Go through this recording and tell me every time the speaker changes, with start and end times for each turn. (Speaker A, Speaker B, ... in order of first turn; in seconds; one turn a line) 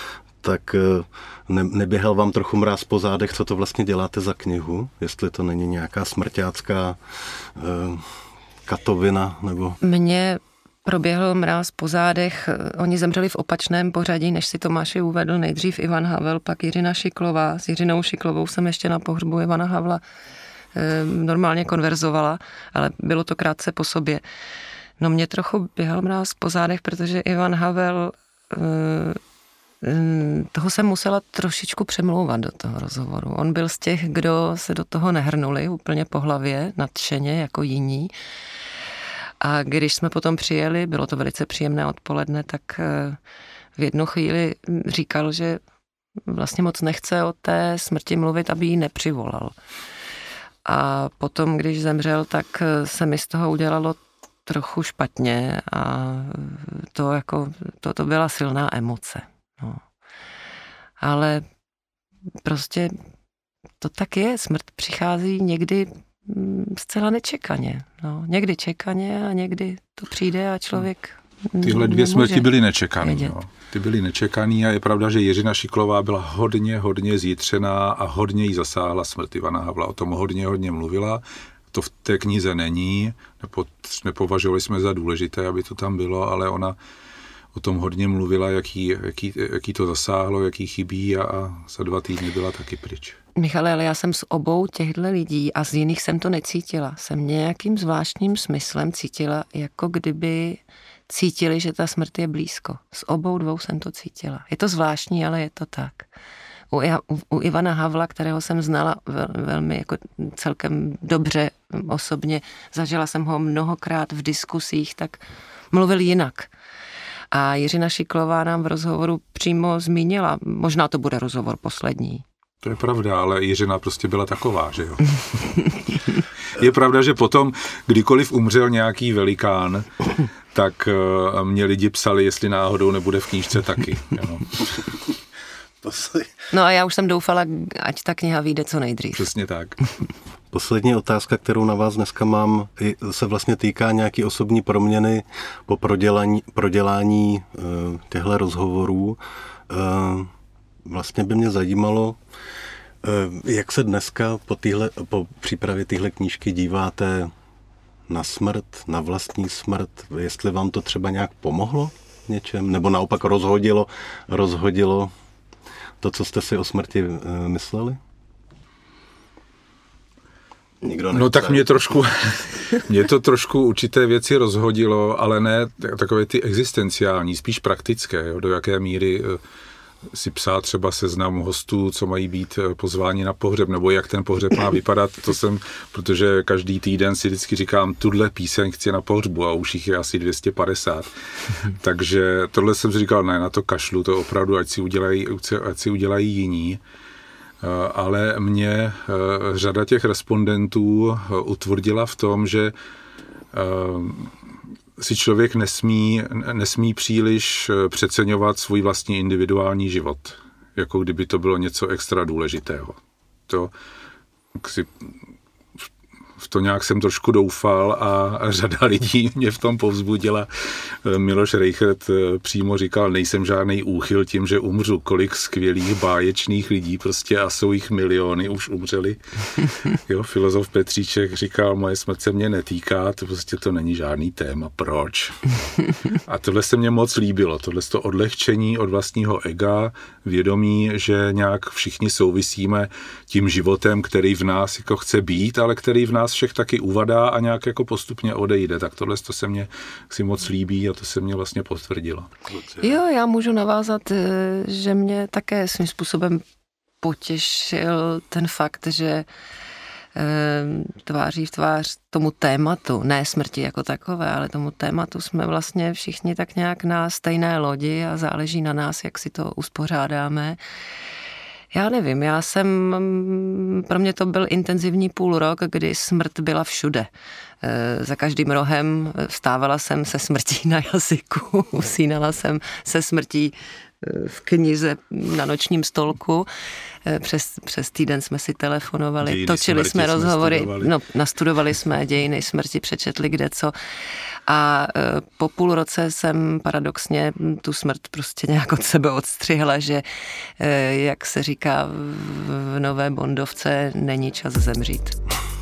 Speaker A: 0.4-9.8
Speaker B: 9.8-20.0
Speaker B: 20.7-24.2
Speaker B: 25.0-29.2
Speaker B: 29.8-38.1
Speaker B: 39.4-43.2
Speaker B: 43.8-45.6
Speaker B: 46.3-49.5
Speaker B: 50.6-59.8
Speaker B: 61.0-61.4
Speaker B: 62.4-62.9
Speaker B: 63.8-72.5
Speaker C: 71.6-86.8
Speaker B: 73.0-73.3
Speaker C: 87.5-93.2
Speaker B: 93.4-106.1
Speaker B: 106.7-116.5
Speaker B: 117.3-122.2
Speaker C: 122.6-125.2
Speaker C: 126.5-134.6
Speaker A: 135.8-136.3
Speaker B: 136.5-139.2
Speaker C: 139.2-139.8
Speaker A: 140.5-150.3
Speaker A: 150.8-152.2
Speaker A: 153.0-157.3
Speaker A: 158.1-165.1
Speaker A: 166.0-168.0
Speaker A: 170.8-171.7
Speaker C: 171.1-179.4
Speaker C: 180.1-196.8
Speaker C: 197.6-202.7
Speaker C: 203.5-204.3
Speaker C: 205.0-213.7
Speaker C: 214.5-215.1
Speaker C: 216.4-235.6
Speaker C: 236.1-252.3
Speaker A: 252.5-252.9
Speaker B: 252.8-256.4
Speaker B: 257.0-259.3
Speaker B: 260.1-270.6
Speaker B: 271.7-277.1
Speaker B: 277.6-286.5
Speaker B: 287.0-293.7
Speaker C: 289.2-290.9
Speaker B: 294.5-300.1
Speaker B: 300.6-305.2